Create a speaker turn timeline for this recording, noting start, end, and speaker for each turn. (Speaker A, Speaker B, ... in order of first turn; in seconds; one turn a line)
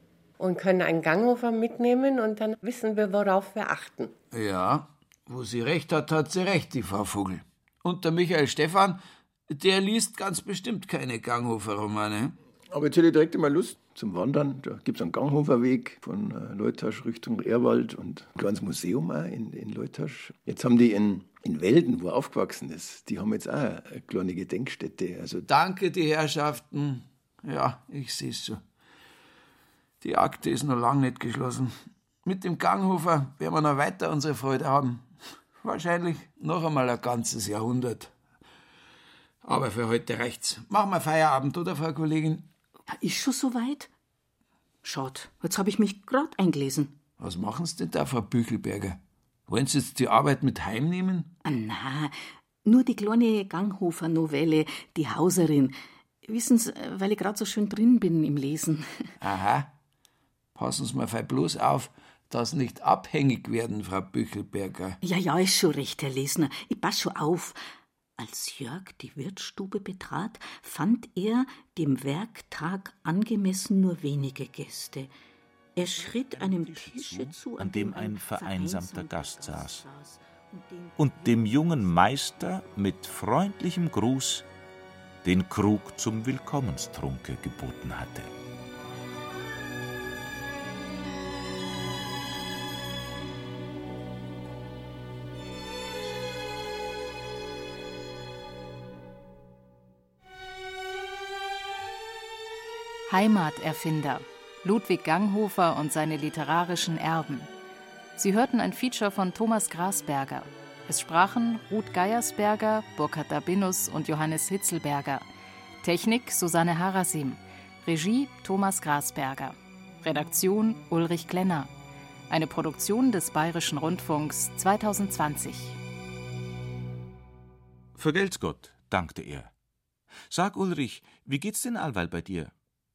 Speaker A: 0.4-4.1
Speaker B: 4.3-9.0
Speaker B: 9.5-12.4
Speaker C: 12.7-25.4
Speaker B: 25.5-28.6
Speaker B: 30.0-31.7
Speaker B: 32.2-35.1
Speaker B: 35.6-38.1
Speaker B: 39.4-42.5
Speaker D: 42.9-43.9
Speaker D: 44.8-46.9
Speaker B: 47.2-51.3
Speaker D: 51.4-52.1
Speaker D: 52.6-55.7
Speaker D: 56.2-59.1
Speaker B: 59.2-59.7
Speaker B: 60.6-65.0
Speaker D: 65.0-67.6
Speaker D: 68.2-75.1
Speaker D: 75.8-82.0
Speaker E: 75.8-79.8
Speaker E: 81.0-84.5
Speaker E: 85.2-88.3
Speaker F: 103.1-107.5
Speaker F: 108.2-115.3
Speaker F: 115.8-121.7
Speaker F: 122.3-125.8
Speaker E: 128.0-129.5
Speaker E: 130.3-132.5